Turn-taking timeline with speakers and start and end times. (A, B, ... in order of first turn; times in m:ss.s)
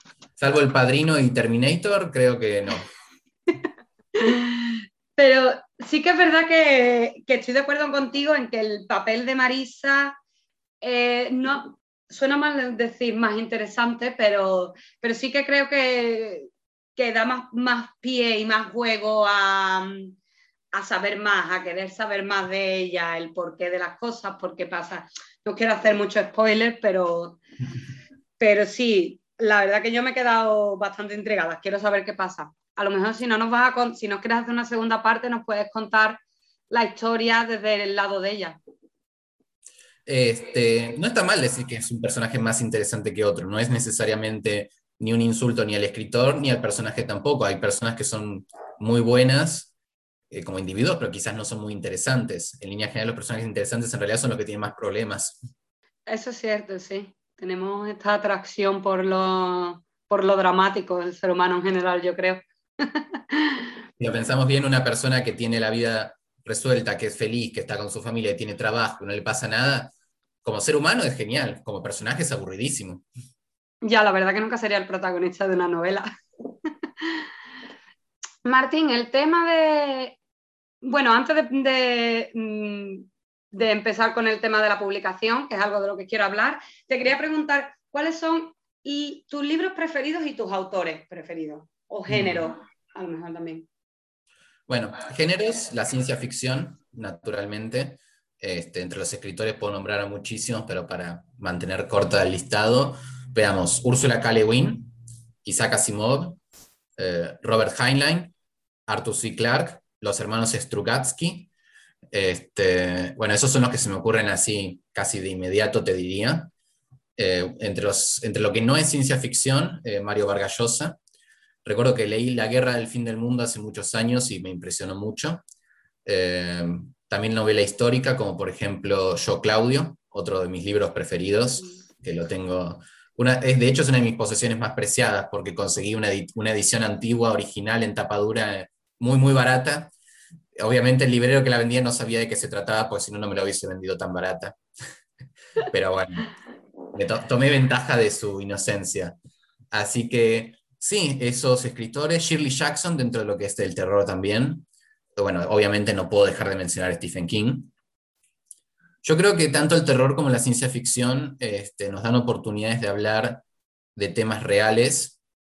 0:00.4-0:02.9 A
0:04.2-0:10.2 B
0:10.8-0:20.2 B
0:20.7-0:27.4 B
0:28.4-0:38.6 B
0:40.1-0:49.7 A
0:50.3-0:55.4 A
0:56.1-1:03.7 B
1:04.0-1:13.0 A
1:13.8-1:16.1 B
1:18.4-1:20.2 B
1:20.8-1:33.7 B
1:34.7-1:44.9 A
1:45.4-1:46.4 A
1:47.0-1:48.3 A
1:48.9-1:51.5 A
1:52.1-1:56.5 A
1:57.2-2:01.0 A
2:01.6-2:05.4 A
2:06.0-2:19.9 A
2:20.6-2:24.6 A
2:25.7-2:26.3 A
2:26.9-2:29.2 A
2:29.7-2:37.7 A
2:39.0-2:43.4 A
2:44.0-2:45.2 A